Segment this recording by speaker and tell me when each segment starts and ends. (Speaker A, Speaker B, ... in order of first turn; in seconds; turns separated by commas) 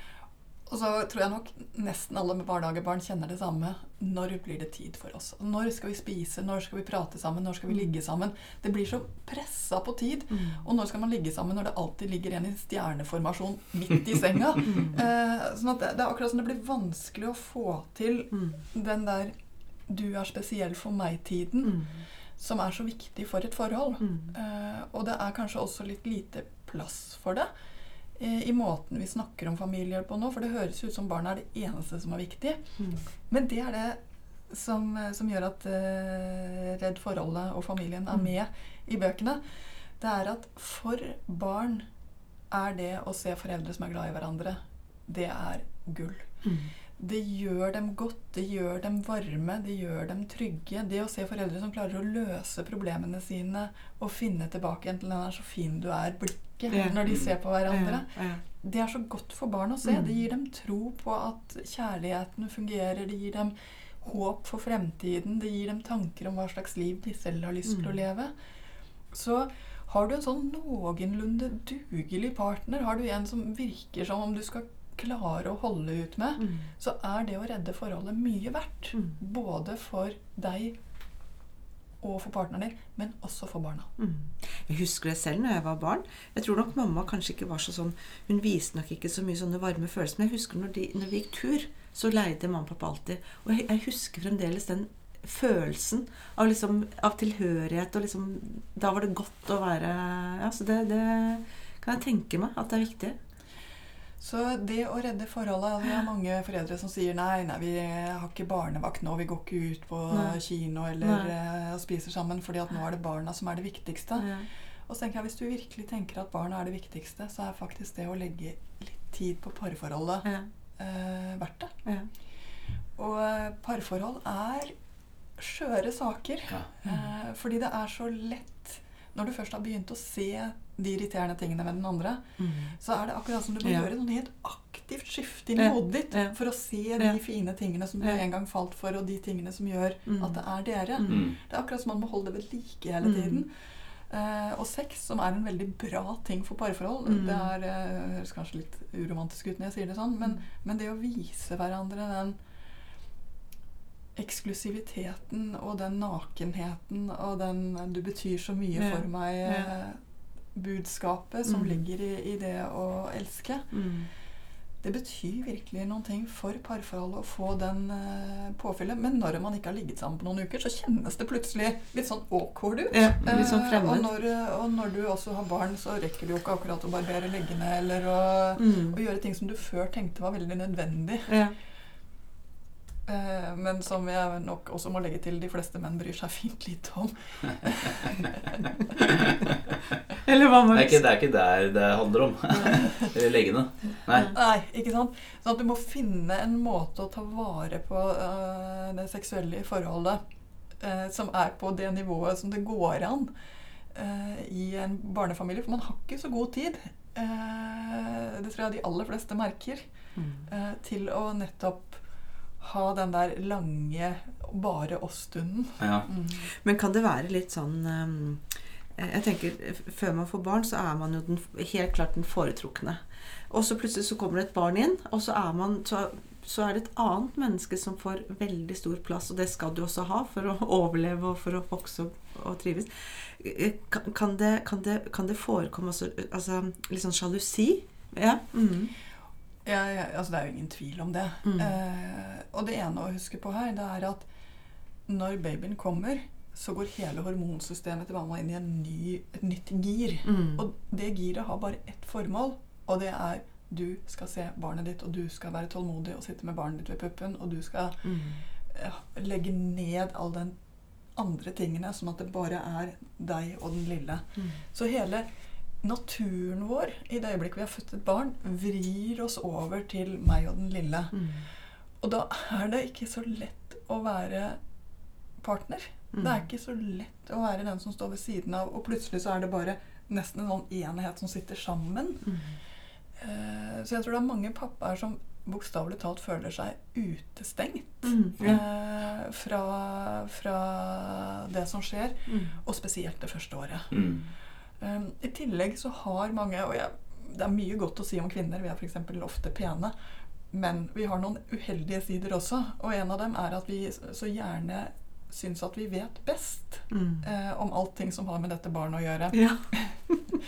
Speaker A: 0.7-19.3, Speaker B: 10.3-10.6, Speaker B: 14.7-15.0, Speaker A: 19.9-21.8, Speaker A: 22.4-27.5, Speaker A: 28.2-32.7, Speaker A: 33.3-34.0, Speaker A: 34.5-39.4, Speaker A: 40.0-41.9, Speaker A: 42.5-46.3, Speaker A: 47.0-68.3, Speaker B: 56.7-57.0, Speaker C: 57.1-57.3, Speaker B: 57.7-58.4, Speaker A: 69.1-80.8, Speaker A: 82.0-83.9, Speaker B: 84.0-103.2, Speaker A: 104.2-114.3, Speaker B: 110.1-110.4, Speaker B: 111.0-111.3, Speaker B: 114.2-114.5, Speaker A: 114.9-121.7, Speaker A: 123.0-124.8, Speaker A: 125.4-132.2, Speaker B: 132.4-132.7, Speaker A: 132.8-143.5, Speaker B: 135.6-136.3, Speaker B: 140.1-140.4, Speaker B: 141.0-141.3, Speaker C: 141.1-141.3, Speaker B: 143.0-143.4, Speaker A: 144.1-152.4, Speaker B: 147.1-147.5, Speaker A: 154.2-160.0, Speaker B: 158.8-159.7, Speaker A: 160.6-163.7, Speaker B: 161.5-161.8, Speaker B: 163.7-164.1, Speaker A: 164.8-181.3, Speaker B: 172.9-174.1, Speaker B: 178.6-179.0, Speaker B: 181.3-181.5, Speaker A: 183.1-188.6, Speaker B: 190.3-191.0, Speaker C: 190.7-194.3, Speaker A: 194.3-200.2, Speaker A: 200.8-203.3, Speaker A: 203.9-209.8, Speaker B: 210.2-210.4, Speaker A: 210.5-212.0, Speaker A: 212.6-216.5, Speaker C: 215.8-216.1, Speaker B: 216.6-218.4, Speaker B: 219.0-223.0, Speaker B: 223.5-238.9, Speaker A: 239.7-244.3, Speaker B: 241.5-241.7, Speaker A: 245.1-258.1, Speaker B: 250.3-250.6, Speaker B: 258.1-258.4, Speaker A: 258.7-260.6, Speaker A: 261.2-265.3, Speaker A: 265.8-271.1, Speaker B: 271.1-271.4, Speaker A: 272.0-274.6, Speaker A: 275.4-282.3, Speaker A: 283.2-293.9, Speaker B: 288.1-288.6, Speaker B: 292.3-292.5, Speaker C: 293.9-294.2, Speaker A: 294.8-299.9, Speaker A: 300.5-309.9, Speaker B: 306.9-307.2, Speaker B: 309.3-309.6